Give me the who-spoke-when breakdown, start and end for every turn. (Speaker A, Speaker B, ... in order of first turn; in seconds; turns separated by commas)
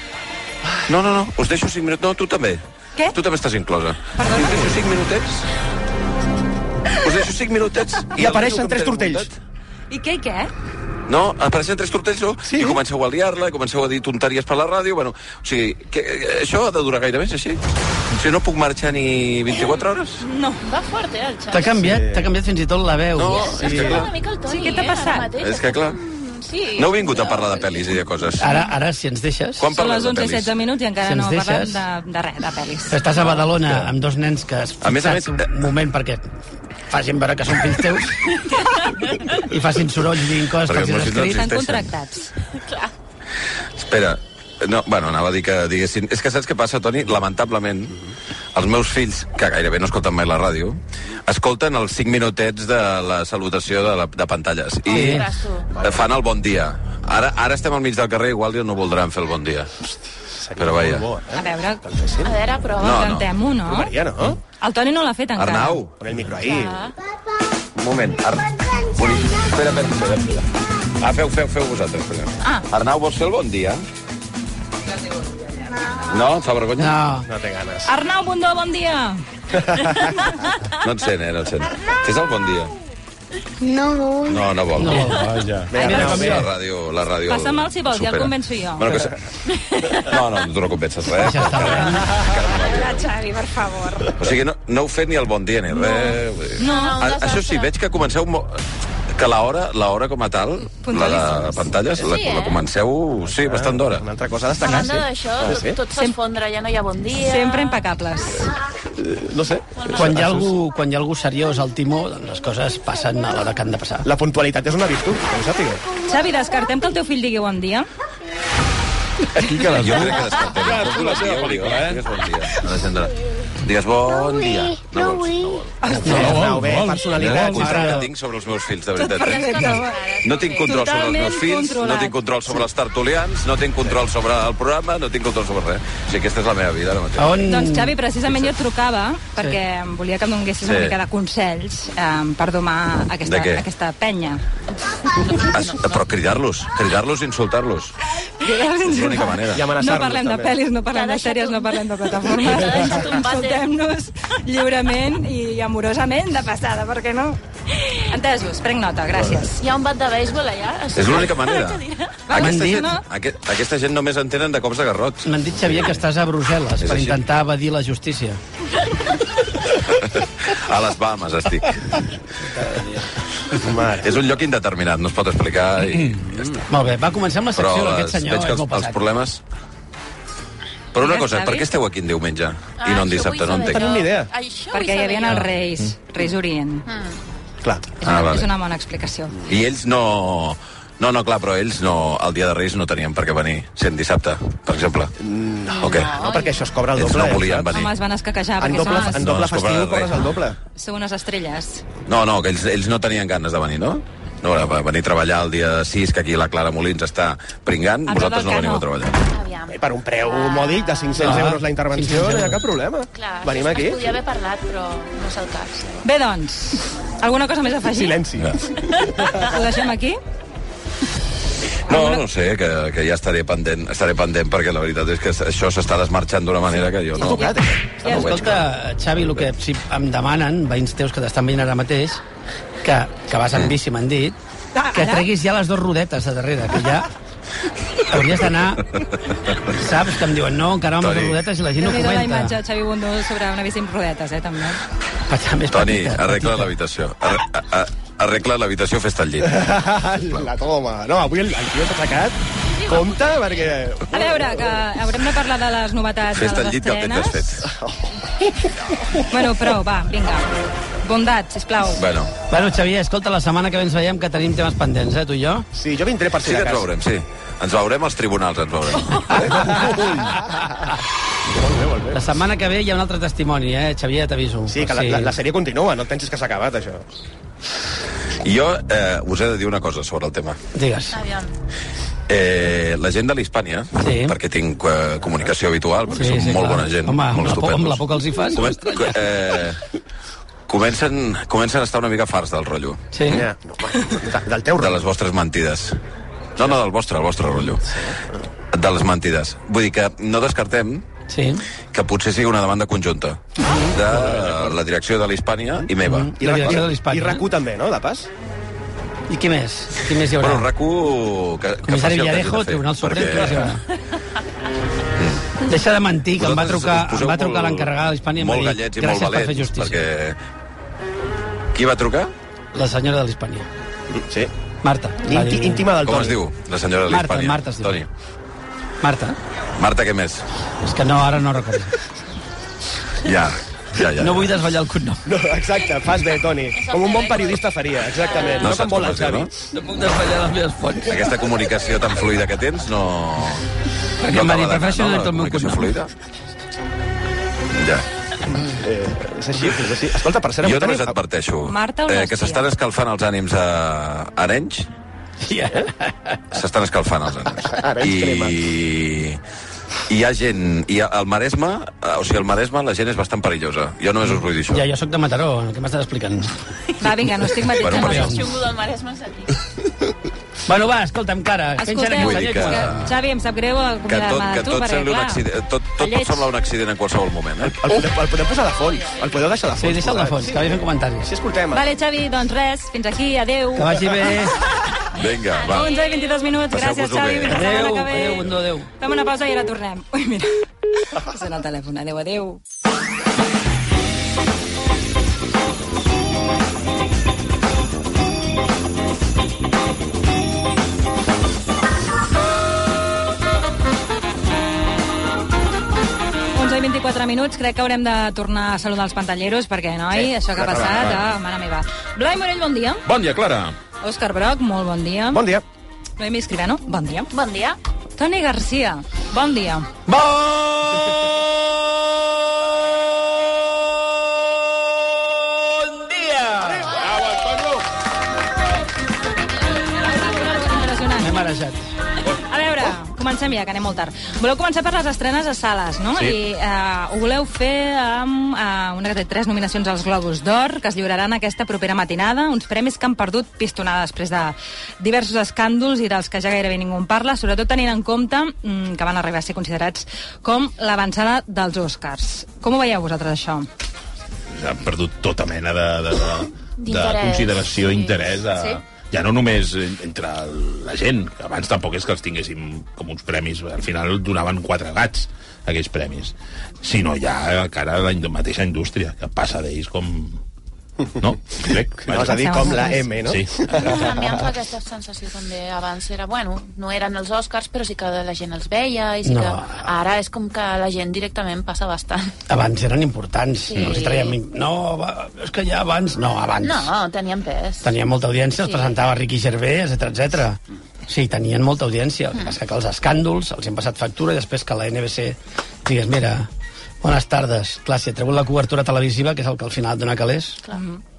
Speaker A: 0.9-2.6, Speaker A: 3.1-5.5, Speaker B: 4.2-4.7, Speaker A: 6.9-9.3, Speaker C: 8.2-9.3, Speaker B: 9.9-10.5, Speaker A: 11.1-17.6, Speaker C: 12.5-12.8, Speaker A: 18.1-20.2, Speaker B: 20.2-20.6, Speaker D: 20.6-21.8, Speaker E: 21.5-23.6, Speaker C: 21.8-22.3, Speaker A: 23.2-24.1, Speaker D: 23.3-27.8, Speaker C: 23.6-24.1, Speaker B: 24.5-25.3, Speaker A: 25.4-26.0, Speaker A: 26.8-28.5, Speaker E: 28.4-29.7, Speaker A: 29.6-30.5, Speaker B: 29.8-33.0, Speaker E: 31.1-31.8, Speaker E: 32.9-36.2, Speaker A: 34.8-35.5, Speaker E: 36.9-38.3, Speaker E: 39.4-41.5, Speaker A: 40.6-41.9, Speaker B: 41.2-42.3, Speaker D: 42.6-42.9, Speaker A: 43.8-48.0, Speaker A: 48.5-55.3, Speaker E: 54.9-55.3, Speaker D: 54.9-55.7, Speaker C: 55.7-56.1, Speaker A: 55.8-59.7, Speaker C: 60.3-62.4, Speaker A: 60.6-61.1, Speaker B: 61.3-61.8, Speaker D: 62.2-63.1, Speaker A: 62.8-63.3, Speaker B: 62.8-63.9, Speaker C: 63.7-64.4, Speaker B: 64.6-65.8, Speaker A: 65.4-66.0, Speaker C: 66.0-66.8, Speaker D: 66.4-66.9, Speaker A: 67.8-70.5, Speaker A: 71.0-73.8, Speaker A: 76.0-77.0, Speaker E: 76.8-77.3, Speaker C: 77.3-77.9, Speaker B: 77.9-79.2, Speaker C: 79.5-80.2, Speaker A: 80.8-82.7, Speaker A: 84.2-85.2, Speaker E: 84.8-86.5, Speaker F: 85.0-85.8, Speaker C: 85.7-86.5, Speaker A: 85.8-89.2, Speaker B: 87.3-88.9, Speaker D: 89.6-90.0, Speaker A: 89.9-93.1, Speaker E: 91.1-92.1, Speaker B: 92.7-94.2, Speaker A: 94.2-98.6, Speaker B: 95.8-97.0, Speaker D: 96.6-97.7, Speaker A: 99.1-104.0, Speaker B: 100.8-101.7, Speaker D: 102.0-102.6, Speaker C: 103.2-105.8, Speaker D: 104.6-107.8, Speaker B: 107.2-108.5, Speaker C: 109.0-110.5, Speaker D: 109.8-110.2, Speaker E: 109.9-114.1, Speaker C: 114.0-115.8, Speaker B: 116.0-117.9, Speaker F: 119.4-122.1, Speaker A: 119.7-125.7, Speaker B: 125.8-126.1, Speaker C: 125.9-128.1, Speaker F: 126.0-127.7, Speaker E: 126.0-126.4, Speaker A: 127.1-137.3, Speaker E: 127.5-128.1, Speaker B: 129.0-130.0, Speaker D: 129.2-130.7, Speaker B: 130.6-132.2, Speaker E: 137.2-138.0, Speaker B: 137.5-144.4, Speaker A: 140.6-140.9, Speaker A: 143.2-143.7, Speaker D: 145.2-145.9, Speaker A: 145.3-147.9, Speaker B: 148.4-157.4, Speaker A: 148.8-149.6, Speaker C: 149.5-150.6, Speaker D: 150.9-153.6, Speaker B: 158.0-159.6, Speaker D: 159.6-162.2, Speaker A: 160.9-166.0, Speaker B: 162.3-163.0, Speaker E: 162.3-162.9, Speaker E: 165.2-168.4, Speaker A: 166.8-167.2, Speaker A: 169.9-172.0, Speaker A: 173.5-176.6, Speaker C: 173.6-174.2, Speaker E: 176.7-179.0, Speaker A: 177.6-179.4, Speaker A: 180.9-183.9, Speaker B: 181.0-181.7, Speaker D: 182.8-185.5, Speaker C: 183.7-184.3, Speaker B: 184.7-186.8, Speaker D: 186.9-187.2, Speaker C: 187.6-187.9, Speaker B: 188.0-189.4, Speaker A: 188.0-188.5, Speaker A: 189.5-195.1, Speaker C: 195.2-197.9, Speaker D: 195.7-196.8, Speaker A: 195.8-196.1, Speaker A: 197.0-197.9, Speaker B: 197.7-199.2, Speaker C: 198.6-200.6, Speaker A: 198.7-200.3, Speaker B: 200.8-201.8, Speaker A: 202.1-209.2, Speaker B: 208.1-208.8, Speaker D: 209.3-211.4, Speaker C: 209.7-214.1, Speaker E: 211.2-212.6, Speaker D: 213.1-216.0, Speaker B: 216.0-218.2, Speaker C: 217.9-219.4, Speaker B: 219.3-220.2, Speaker B: 221.9-222.2, Speaker A: 221.9-228.7, Speaker C: 227.2-228.5, Speaker E: 228.1-232.2, Speaker E: 232.8-234.4, Speaker B: 234.8-235.3, Speaker E: 234.9-237.1, Speaker E: 238.1-239.0, Speaker E: 239.6-242.6, Speaker A: 241.0-241.4, Speaker B: 241.8-244.8, Speaker E: 245.3-246.7, Speaker A: 245.7-249.8, Speaker C: 249.4-254.8, Speaker D: 252.7-253.6, Speaker B: 254.1-257.5, Speaker A: 256.3-257.6, Speaker C: 257.7-258.5, Speaker B: 259.3-260.5, Speaker B: 261.0-262.0, Speaker A: 262.0-262.3, Speaker E: 262.5-265.6, Speaker C: 265.7-266.9, Speaker A: 266.4-269.8, Speaker C: 269.3-270.7, Speaker C: 271.5-272.2, Speaker E: 272.1-275.4, Speaker C: 274.7-277.1, Speaker A: 278.4-280.6, Speaker E: 280.8-281.2, Speaker D: 281.1-281.5, Speaker A: 282.3-289.8, Speaker E: 284.0-284.4, Speaker E: 286.1-289.2, Speaker A: 290.7-293.4, Speaker E: 293.1-293.4, Speaker C: 293.3-295.0, Speaker A: 294.8-296.0, Speaker A: 296.6-297.8, Speaker C: 297.9-298.2, Speaker A: 298.7-301.1, Speaker E: 301.3-301.6, Speaker A: 301.9-306.8, Speaker E: 303.6-304.0, Speaker F: 304.1-304.7, Speaker E: 306.0-307.5, Speaker C: 306.4-308.3, Speaker E: 309.3-310.7, Speaker A: 310.4-313.8, Speaker E: 311.9-313.8, Speaker A: 315.2-315.4, Speaker E: 315.6-320.1, Speaker A: 316.4-320.4, Speaker A: 321.7-322.3, Speaker E: 322.7-323.7, Speaker C: 324.1-324.5, Speaker E: 324.8-325.9, Speaker C: 325.2-326.4, Speaker A: 326.0-328.1, Speaker E: 327.1-328.0, Speaker E: 329.0-329.4, Speaker A: 329.8-330.4, Speaker E: 330.8-332.0, Speaker A: 333.2-334.5, Speaker E: 334.1-335.2, Speaker C: 335.2-339.5, Speaker D: 336.8-337.6, Speaker D: 338.4-338.6, Speaker A: 338.6-339.5, Speaker E: 339.7-341.3, Speaker A: 341.1-343.6, Speaker E: 344.2-345.9, Speaker A: 344.2-346.1, Speaker A: 347.8-348.1, Speaker C: 348.7-351.2, Speaker A: 350.6-354.9, Speaker B: 351.7-352.7, Speaker E: 355.4-356.6, Speaker A: 356.5-359.4, Speaker C: 357.6-358.6, Speaker A: 360.1-364.9, Speaker E: 364.7-366.5, Speaker B: 367.0-368.4, Speaker A: 367.8-368.3, Speaker D: 367.9-369.6, Speaker E: 368.0-368.4, Speaker E: 370.6-373.1, Speaker B: 371.8-375.4, Speaker A: 372.2-373.1, Speaker A: 374.1-377.8, Speaker B: 376.0-376.5, Speaker C: 377.6-381.9, Speaker E: 379.8-381.3, Speaker B: 381.7-384.4, Speaker E: 383.8-384.6, Speaker A: 385.1-385.9, Speaker D: 385.6-386.4, Speaker B: 385.6-390.5, Speaker A: 386.7-387.6, Speaker E: 387.5-388.9, Speaker B: 391.1-392.6, Speaker B: 406.6-413.0, Speaker C: 410.1-411.2, Speaker F: 413.1-413.8, Speaker B: 414.0-415.4, Speaker C: 415.3-415.6, Speaker B: 416.2-417.3, Speaker D: 417.3-417.8, Speaker B: 418.2-419.9, Speaker F: 420.1-420.9, Speaker E: 426.1-426.9, Speaker F: 426.8-427.8, Speaker B: 430.0-431.3, Speaker E: 431.2-431.8, Speaker B: 432.3-453.7, Speaker F: 454.5-470.4, Speaker D: 456.8-458.2, Speaker F: 471.2-474.1, Speaker C: 472.0-474.5, Speaker B: 472.3-473.1, Speaker D: 473.8-482.4, Speaker E: 479.2-479.9, Speaker E: 482.5-486.9, Speaker D: 483.7-484.4, Speaker D: 486.6-487.9, Speaker E: 487.8-496.5, Speaker D: 488.6-488.9, Speaker E: 497.0-500.6, Speaker B: 500.7-501.0